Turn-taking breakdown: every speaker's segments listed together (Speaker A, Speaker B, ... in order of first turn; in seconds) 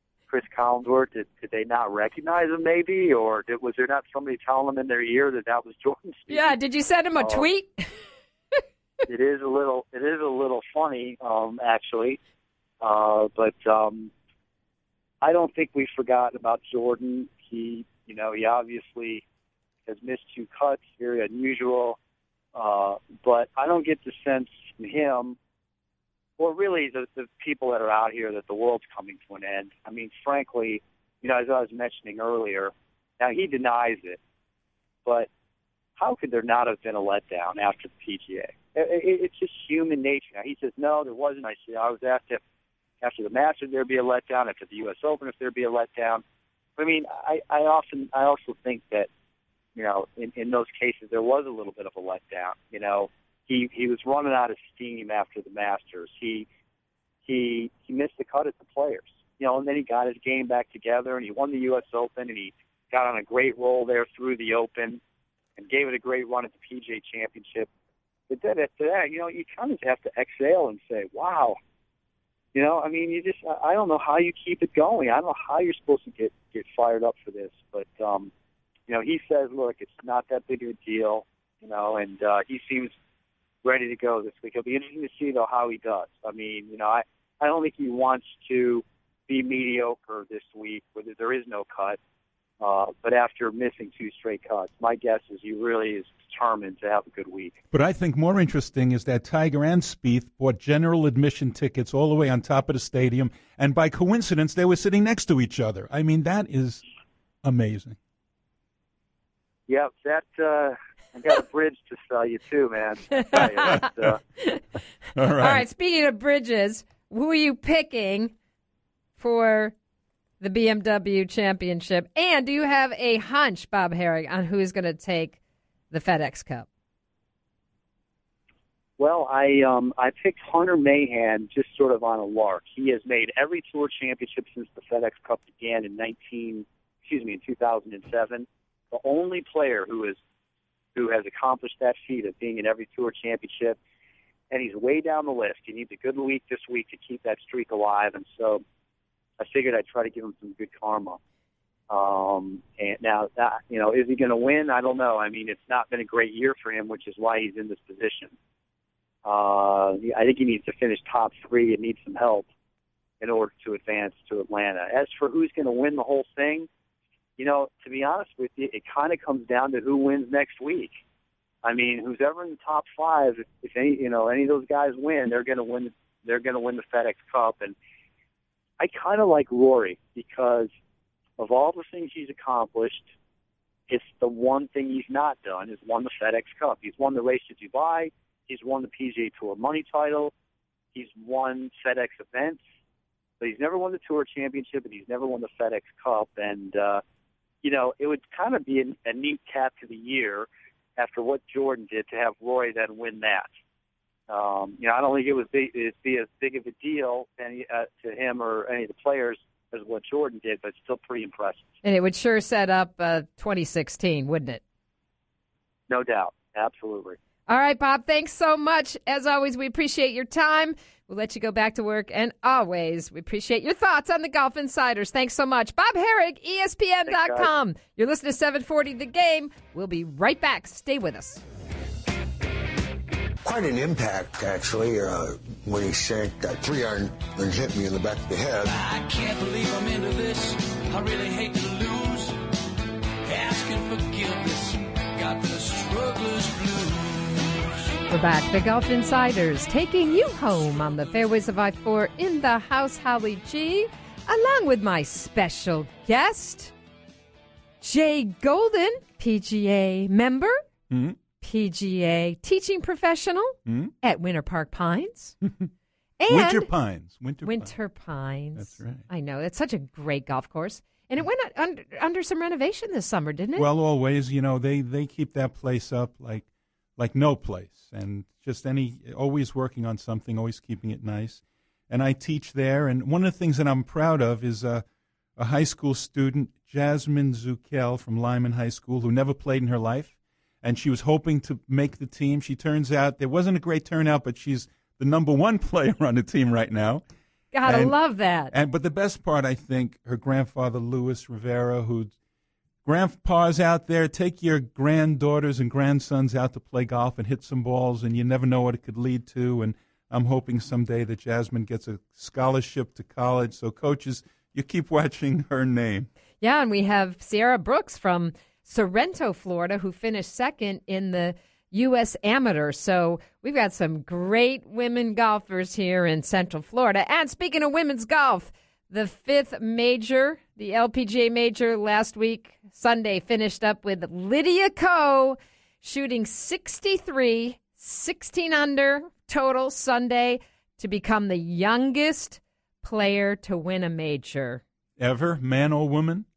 Speaker A: 0.3-6.5, 7.2-7.5, 9.1-12.2, 12.8-14.1, 15.2-19.2, 19.9-22.0, 22.6-25.4, 26.4-34.2, 36.0-42.4, 43.0-46.2, 46.8-49.1, 49.8-56.5, 57.3-65.0, 65.6-67.7, 68.3-71.6, 72.5-78.3, 78.9-82.9, 83.6-92.0, 92.6-97.6, 109.7-114.2, 129.0-140.2, 140.9-143.8, 144.5-148.6, 149.4-151.2, 151.9-158.3, 159.2-162.5, 163.2-166.7, 167.4-170.9, 171.6-177.8, 178.8-180.7, 181.4-183.1, 183.9-190.3, 190.9-192.6, 193.4-197.0, 197.6-203.5, 204.3-211.7, 215.9-217.2, 227.1-227.5
Speaker B: 6.3-7.9, 115.3-118.3, 119.2-119.7, 120.4-125.4, 125.9-126.7, 211.8-214.6, 217.5-231.4, 248.1-256.7, 257.8-260.6, 261.4-265.4, 266.2-266.7, 267.4-273.7, 297.5-298.5, 316.4-344.6
Speaker C: 97.7-106.8, 107.4-108.0, 115.2-115.6, 260.9-261.2, 263.7-263.9, 265.4-265.7, 266.3-267.7, 268.6-269.0, 273.6-284.8, 285.4-297.0, 297.6-298.0, 298.5-302.1, 302.9-316.1, 345.0-346.3
Speaker D: 233.4-238.7
Speaker E: 238.6-242.4, 243.3-247.6